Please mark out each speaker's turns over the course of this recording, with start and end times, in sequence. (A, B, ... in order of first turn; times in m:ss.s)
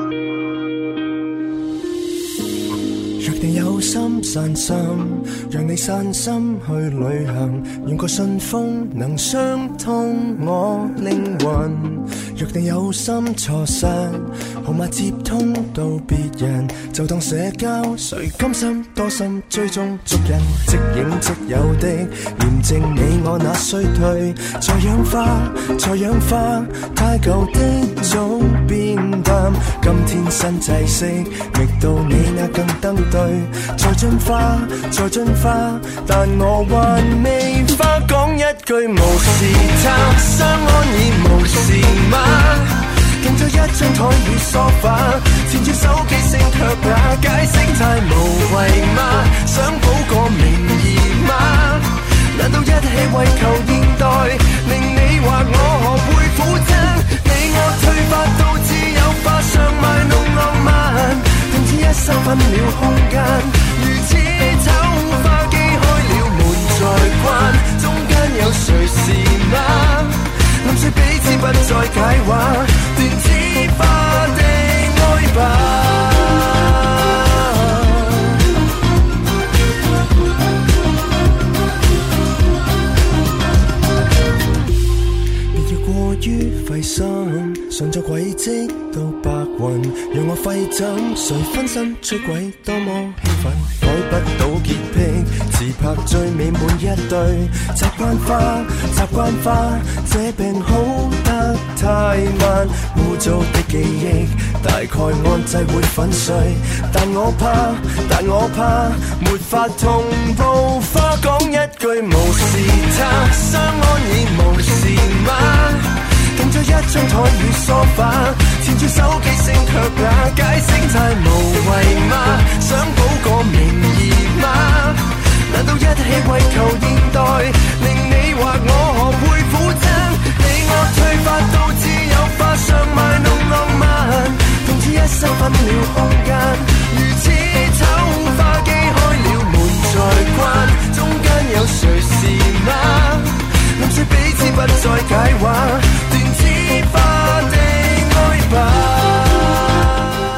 0:03.2-1:18.4 A
1:25.5-2:29.7 A